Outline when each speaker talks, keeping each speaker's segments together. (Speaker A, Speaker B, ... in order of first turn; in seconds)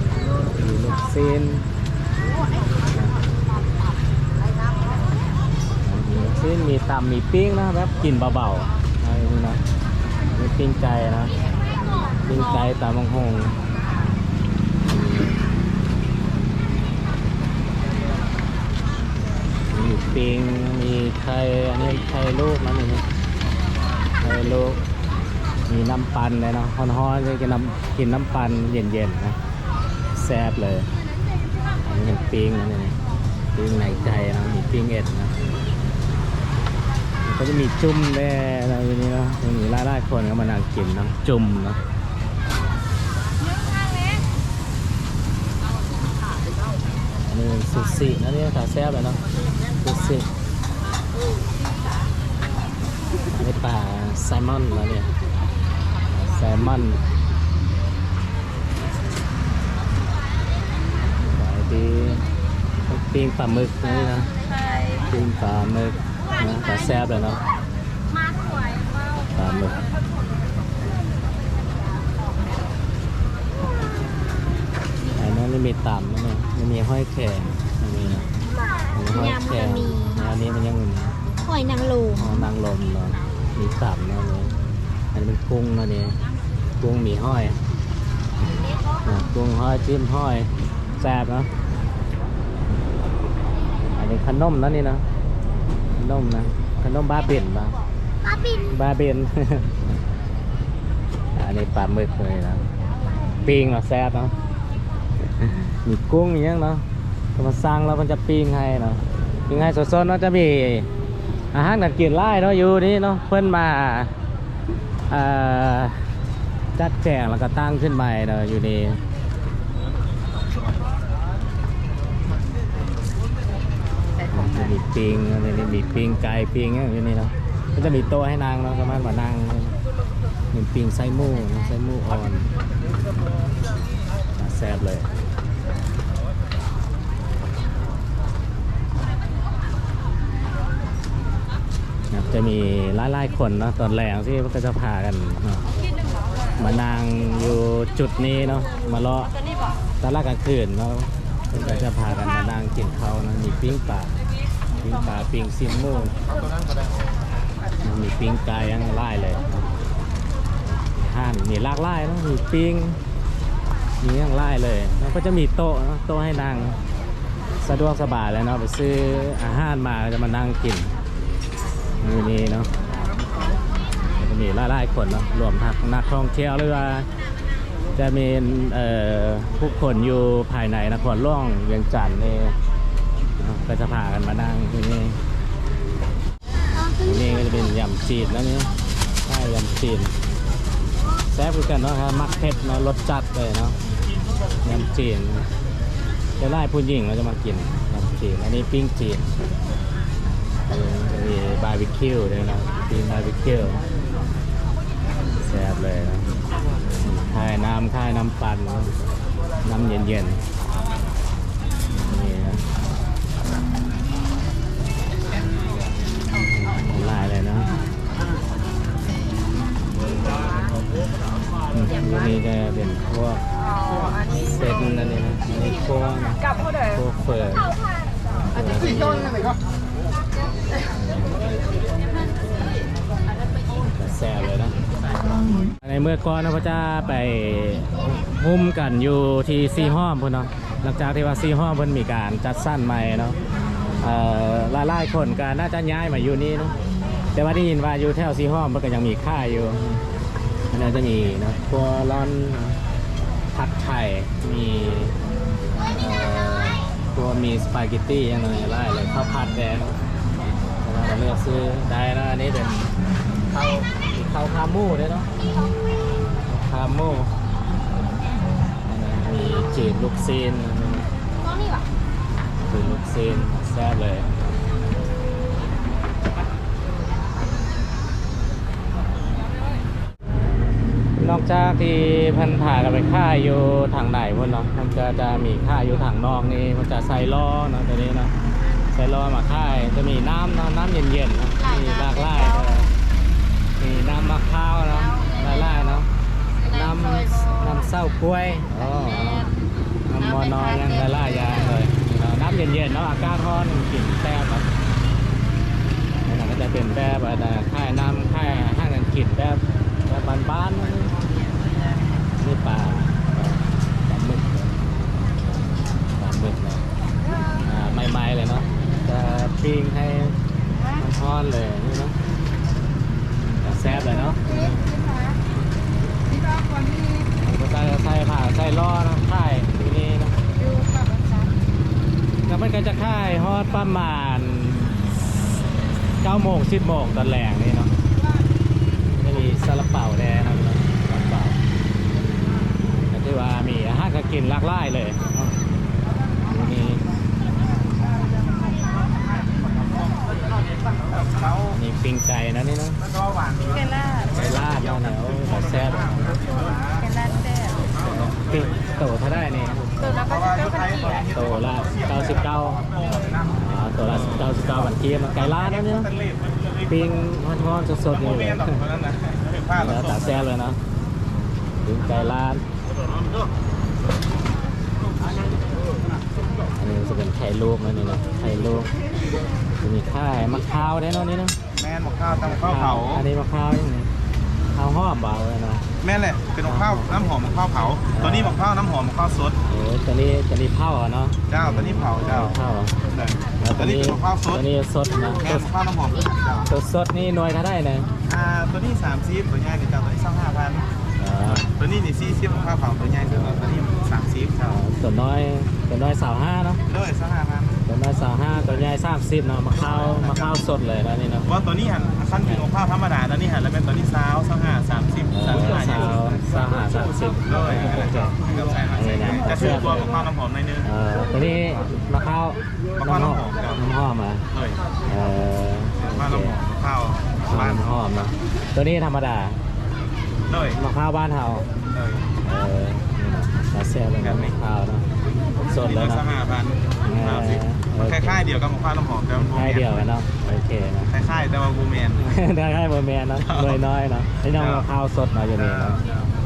Speaker A: 0.4-1.7, 5.8-9.6, 10.3-11.3, 11.9-13.6, 14.8-15.4, 19.7-23.0, 24.2-24.8, 25.6-29.4, 30.1-30.9, 31.8-33.0, 33.5-35.4, 37.2-41.8, 47.3-49.2, 49.8-50.3, 53.3-55.1, 56.1-57.0, 61.2-62.2, 62.9-64.3, 64.9-67.4, 69.3-69.8, 75.1-78.3, 78.9-81.2, 82.1-84.5, 85.1-86.2, 86.8-87.6, 89.0-91.5, 94.0-95.0, 95.9-97.8, 98.5-99.7, 101.3-102.7, 103.4-104.4, 105.3-110.9, 111.5-114.1, 115.1-116.0, 116.8-119.0, 124.3-129.8, 130.5-132.5, 134.3-135.1, 142.1-145.7, 146.6-149.3, 150.0-154.2, 154.7-156.2, 157.8-159.7, 161.0-163.0, 164.0-166.8, 167.6-170.9, 172.0-172.7, 174.1-177.1, 177.9-182.6, 183.4-185.2, 186.9-188.7, 189.2-190.2, 191.2-193.8, 194.6-195.5, 196.4-199.3, 200.7-203.8, 205.4-206.3, 207.0-208.9, 209.6-210.4, 211.9-212.6, 216.5-217.8, 221.7-223.4, 224.2-227.7, 228.4-229.6, 231.0-231.4, 233.9-234.8, 235.8-243.4, 244.0-246.8, 247.3-250.0, 250.7-252.8, 253.5-255.2, 255.8-260.0, 260.7-262.9, 263.5-265.3, 266.4-267.3, 268.8-271.1, 272.6-274.3, 281.2-288.3, 288.9-292.9, 293.8-296.1, 296.6-299.5, 300.1-304.7, 306.2-311.1, 312.4-314.6, 316.1-316.9, 317.5-322.2, 323.6-324.8, 327.2-330.4, 332.5-335.1, 336.2-337.9, 339.1-341.6, 343.1-345.5, 346.4-347.2, 351.7-353.0, 354.2-356.4, 357.1-360.2, 361.2-362.8, 363.5-366.1, 366.8-368.8, 369.7-370.8, 371.8-372.6, 376.8-378.9, 379.8-381.6, 382.6-384.1, 384.7-385.9, 386.6-387.1, 388.1-388.6, 389.6-392.9, 393.6-395.7, 396.6-398.1, 401.2-401.7, 403.2-403.8, 404.6-406.8, 407.9-411.5, 415.3-420.1, 420.8-424.5, 425.0-426.6, 427.5-429.6, 430.6-431.7, 432.4-435.1, 435.6-436.3, 437.0-438.4, 439.4-441.2, 442.2-446.0
Speaker B: 79.1-80.2, 81.4-82.3, 98.3-98.6, 186.7-187.6, 271.4-271.9, 291.6-292.9, 296.6-297.7, 299.0-299.6, 300.2-301.7, 330.8-331.5, 357.1-357.6, 360.3-361.0
Speaker C: 349.5-350.1, 351.1-351.7, 353.1-354.1, 356.3-357.1, 360.2-362.0, 362.9-363.4, 366.0-366.8, 368.4-370.2, 381.8-383.2, 386.0-389.6, 391.5-392.5, 393.1-393.4, 394.0-394.5, 395.5-396.6, 398.2-400.9, 401.6-404.7, 406.9-407.8, 411.5-416.2, 417.8-420.8, 423.2-423.7, 426.2-427.6, 430.5-430.7, 431.9-432.3, 436.2-437.6, 438.2-439.9, 441.1-442.3